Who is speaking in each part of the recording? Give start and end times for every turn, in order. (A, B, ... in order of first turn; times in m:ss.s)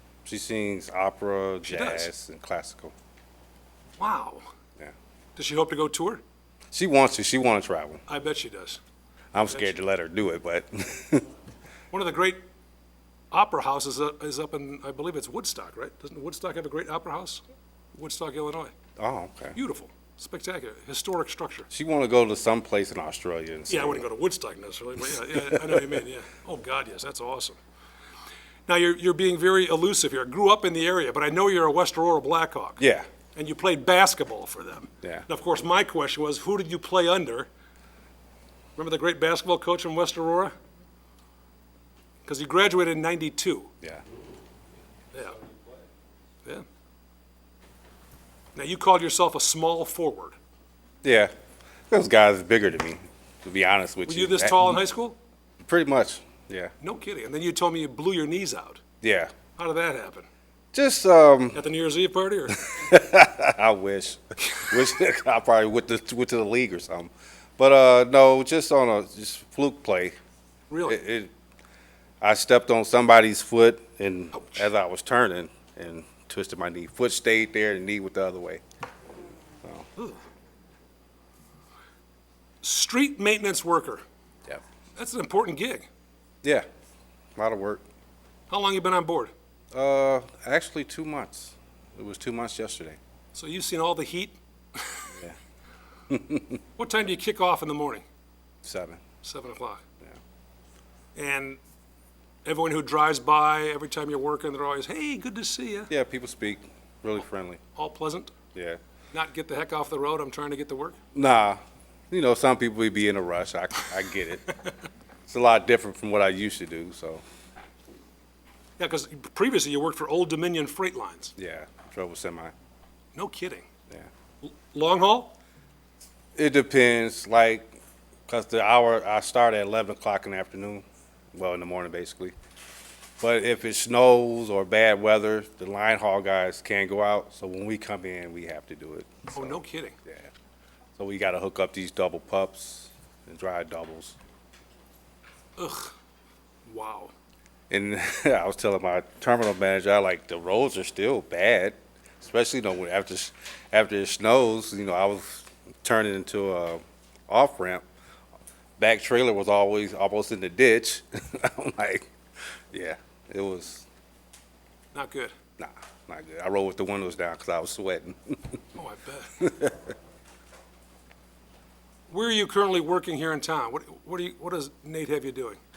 0:00.2-0:02.9 A
0:01.6-0:02.1 B
0:04.0-0:04.5 B
0:05.4-0:06.2 B
0:06.7-0:08.0 A
0:08.1-0:08.8 B
0:09.3-0:11.3 A
0:09.5-0:09.7 B
0:11.9-0:12.4 B
0:13.3-0:17.4 B
0:18.0-0:18.7 B
0:19.0-0:19.6 A
0:19.5-0:21.7 B
0:21.7-0:24.1 A
0:23.7-0:27.6 B
0:25.1-0:26.0 A
0:28.7-0:37.5 B
0:32.8-0:33.1 A
0:38.8-0:40.5 B
0:42.2-0:43.7 B
0:45.1-0:45.4 B
0:48.5-0:50.4 B
0:51.0-0:51.3 A
0:51.9-0:54.8 A
0:54.0-0:55.2 B
0:55.6-0:56.7 A
0:56.8-0:58.8 B
0:59.0-0:59.3 A
0:59.5-1:00.3 B
1:00.7-1:01.6 A
1:01.5-1:02.9 B
1:02.7-1:10.2 A
1:10.7-1:11.0 B
1:10.8-1:11.3 A
1:12.2-1:18.6 A
1:14.3-1:14.7 B
1:20.0-1:20.2 B
1:22.6-1:24.0 B
1:25.0-1:25.9 B
1:27.4-1:27.8 A
1:28.5-1:29.3 B
1:29.7-1:33.0 A
1:33.3-1:35.1 B
1:36.1-1:36.6 A
1:36.8-1:38.0 B
1:38.6-1:39.0 A
1:39.2-1:39.8 B
1:41.1-1:41.6 B
1:42.4-1:45.9 B
1:45.9-1:47.6 A
1:47.8-1:48.3 B
1:48.5-1:48.8 A
1:49.1-1:51.0 B
1:51.1-1:54.5 A
1:55.3-1:57.2 A
1:58.8-2:01.3 B
2:01.4-2:02.5 A
2:03.1-2:03.7 B
2:04.4-2:05.4 B
2:06.4-2:12.3 A
2:13.2-2:20.3 A
2:19.3-2:20.0 B
2:21.0-2:24.2 A
2:25.6-2:25.9 B
2:26.6-2:27.1 B
2:27.7-2:37.8 A
2:38.8-2:42.1 A
2:42.7-2:43.8 A
2:44.9-2:45.3 B
2:45.6-2:48.5 A
2:48.7-2:49.5 B
2:49.4-2:49.8 A
2:52.1-2:55.6 B